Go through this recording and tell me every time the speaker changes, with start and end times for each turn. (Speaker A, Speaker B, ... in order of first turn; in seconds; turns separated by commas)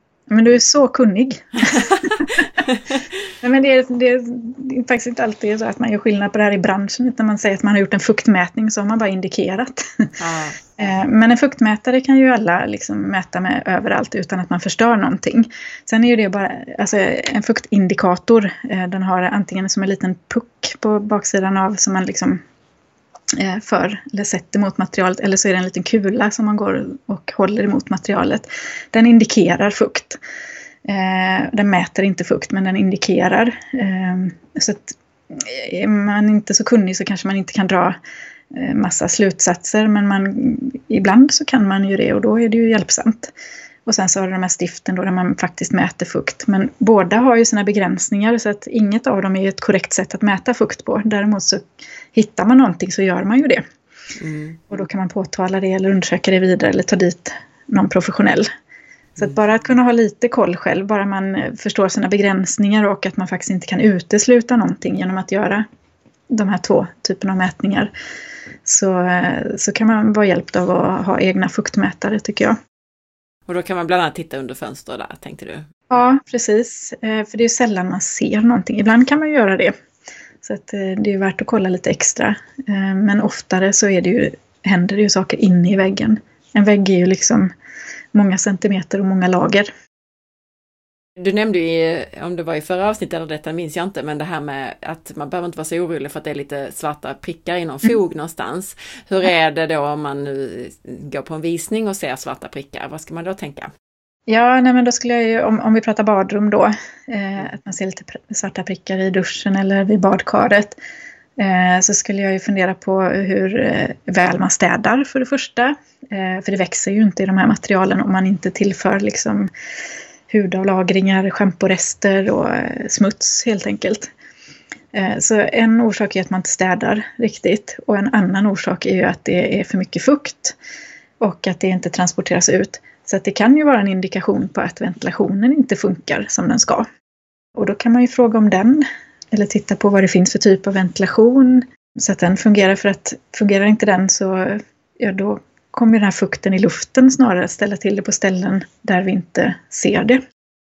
Speaker A: 0.3-2.5, Speaker B: 1.7-3.1, Speaker A: 3.4-10.1, Speaker B: 10.2-10.6, Speaker A: 10.8-22.4, Speaker A: 23.4-30.2, Speaker A: 30.9-38.0, Speaker A: 38.5-43.3, Speaker A: 43.9-53.6, Speaker B: 54.2-54.6, Speaker A: 54.7-58.5, Speaker A: 59.2-65.7, Speaker A: 66.3-67.9, Speaker A: 68.7-72.6, Speaker B: 73.5-75.6, Speaker A: 75.9-79.7, Speaker A: 80.4-87.5, Speaker A: 88.1-89.7, Speaker B: 91.2-103.7, Speaker A: 104.3-110.8, Speaker A: 111.4-119.5, Speaker A: 120.3-124.1, Speaker A: 124.9-130.6, Speaker A: 131.2-136.9, Speaker A: 137.6-150.2